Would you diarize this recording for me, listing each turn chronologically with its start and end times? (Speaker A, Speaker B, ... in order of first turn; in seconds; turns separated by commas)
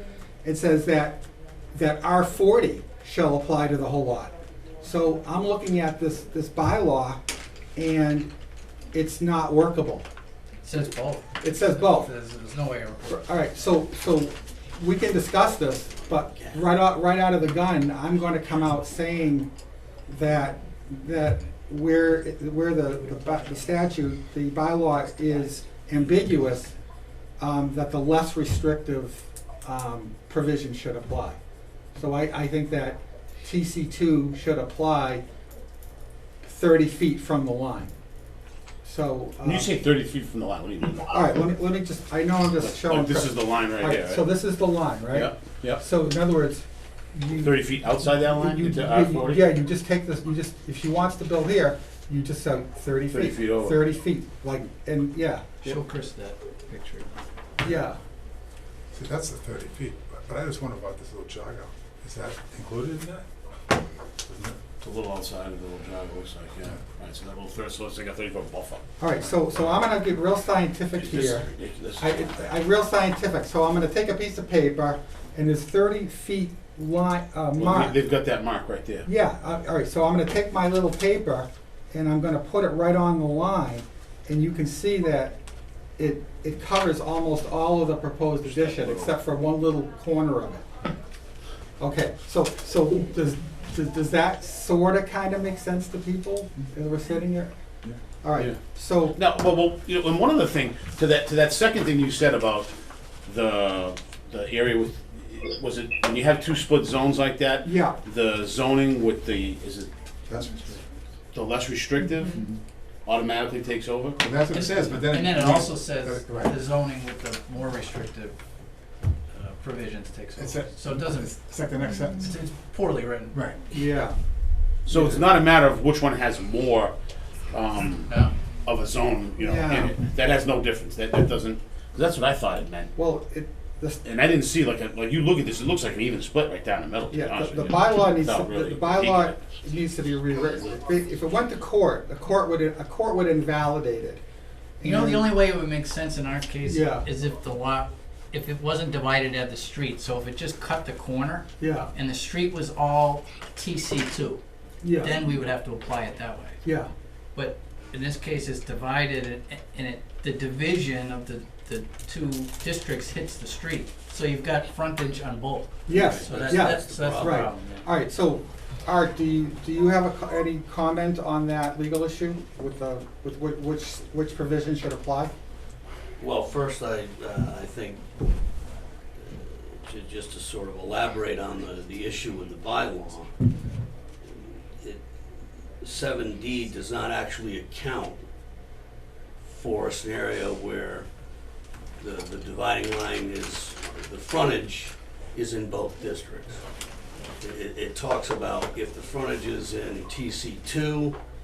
Speaker A: 0.4-1.2, Speaker A: 1.7-7.2, Speaker A: 7.7-8.3, Speaker A: 8.9-10.1, Speaker B: 10.6-13.3, Speaker A: 11.4-12.1, Speaker A: 13.1-19.5, Speaker C: 16.2-16.6, Speaker A: 20.1-26.7, Speaker A: 27.4-31.4, Speaker A: 31.9-35.2, Speaker A: 36.4-37.9, Speaker A: 38.8-39.7, Speaker D: 39.4-41.5, Speaker A: 41.1-47.5, Speaker D: 42.6-44.2, Speaker D: 45.1-45.8, Speaker D: 47.4-49.5, Speaker A: 48.3-55.8, Speaker D: 53.1-53.8, Speaker B: 55.6-57.2, Speaker A: 57.6-58.0, Speaker E: 58.9-63.3, Speaker E: 64.3-64.6, Speaker D: 64.8-69.6, Speaker A: 69.0-71.5, Speaker D: 71.0-72.4, Speaker A: 72.0-78.0, Speaker D: 77.5-79.1, Speaker A: 79.0-85.4, Speaker A: 86.0-90.7, Speaker D: 88.5-89.1, Speaker A: 91.8-97.5, Speaker A: 98.2-99.2, Speaker D: 99.2-102.7, Speaker D: 103.2-109.9, Speaker A: 107.6-108.0, Speaker E: 110.3-110.8, Speaker D: 111.3-112.4, Speaker D: 113.0-114.2, Speaker E: 114.2-116.6, Speaker B: 114.5-118.4, Speaker B: 119.3-121.4, Speaker E: 120.4-122.4, Speaker B: 122.1-123.8, Speaker E: 123.3-123.6, Speaker A: 123.7-124.2, Speaker D: 124.9-126.9, Speaker D: 127.5-128.1, Speaker B: 128.1-128.3, Speaker D: 128.7-132.9, Speaker A: 129.4-129.9, Speaker A: 133.0-134.0, Speaker D: 134.0-139.4, Speaker A: 137.1-144.2, Speaker A: 144.8-145.3, Speaker B: 144.8-154.4, Speaker A: 146.7-147.1, Speaker A: 151.6-151.9, Speaker A: 154.8-155.2, Speaker B: 155.0-156.6, Speaker A: 156.7-156.9, Speaker B: 157.3-167.9, Speaker A: 165.9-175.3, Speaker C: 165.9-167.5, Speaker C: 176.2-178.1, Speaker C: 179.2-183.3, Speaker C: 184.3-185.0, Speaker C: 185.8-188.2, Speaker C: 189.4-191.1, Speaker C: 192.0-196.6, Speaker C: 197.4-201.2